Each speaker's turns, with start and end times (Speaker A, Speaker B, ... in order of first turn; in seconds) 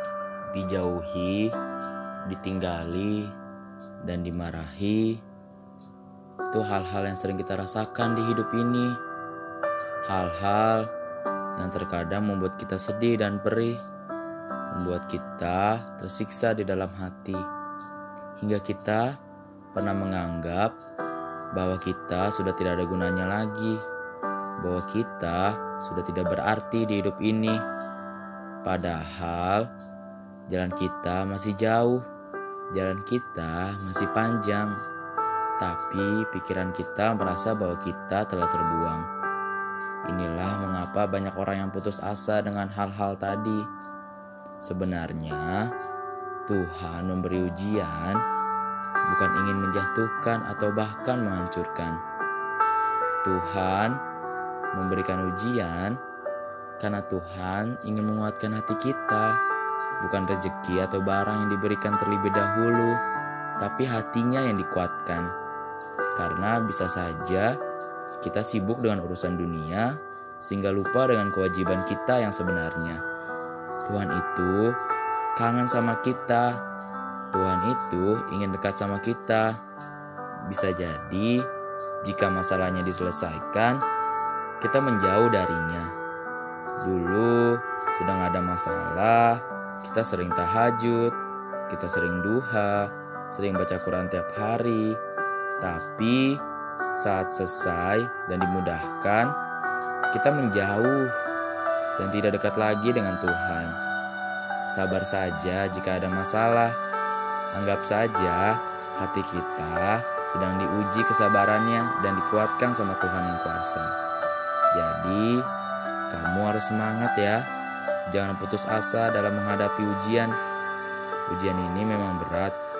Speaker A: 0.5-1.5, 2.3-3.4, 4.0-5.2, 6.5-9.0, 10.1-10.9, 11.6-13.8, 14.7-17.4, 18.4-19.2, 19.7-20.8, 21.5-23.8, 24.6-27.6, 28.6-29.7, 30.5-32.0, 32.7-34.8, 35.6-39.1, 40.1-43.6, 44.6-45.7, 46.5-48.2, 49.1-52.0, 53.2-54.0, 54.7-56.0, 56.8-59.3, 60.0-63.0, 63.6-65.3, 66.2-67.6, 68.2-73.0, 73.8-74.8, 75.4-76.6, 77.3-79.6, 80.5-81.5, 82.0-83.8, 84.6-85.9, 86.8-91.2, 91.7-95.0, 95.6-96.4, 96.9-99.3, 100.1-101.2, 102.0-103.8, 104.7-106.8, 107.5-113.9, 114.7-115.5, 116.1-117.5, 118.1-120.4, 121.3-122.6